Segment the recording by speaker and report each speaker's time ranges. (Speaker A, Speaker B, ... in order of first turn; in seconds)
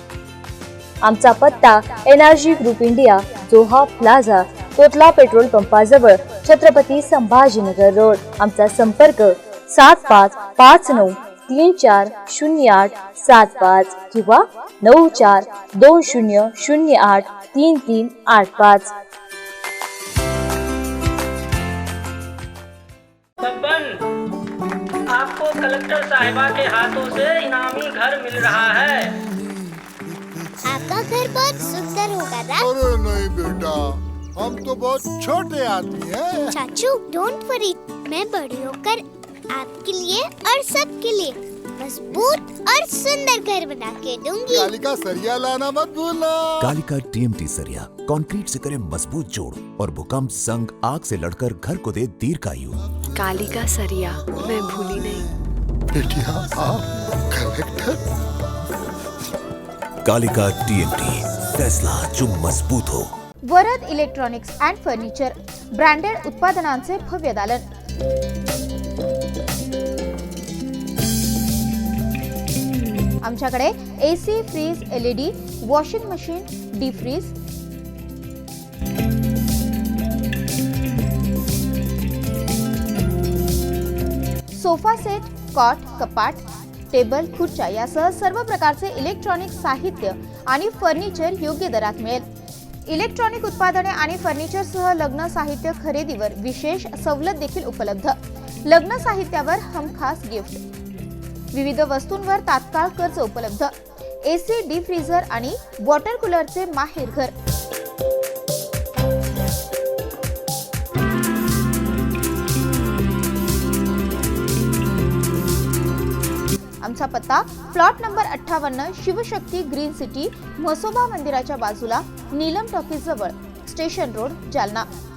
Speaker A: 1.0-18.9
Speaker B: 23.4-24.0, 25.1-29.1
Speaker C: 30.6-32.7, 36.5-44.7
Speaker D: 32.6-36.6, 44.5-46.8, 55.9-58.0
Speaker E: 46.6-52.8, 60.0-63.0
Speaker F: 53.2-55.2
Speaker G: 63.5-67.6, 73.2-77.3, 84.5-92.2, 92.9-98.1, 98.7-100.6, 101.5-103.7, 104.2-107.3, 116.8-124.9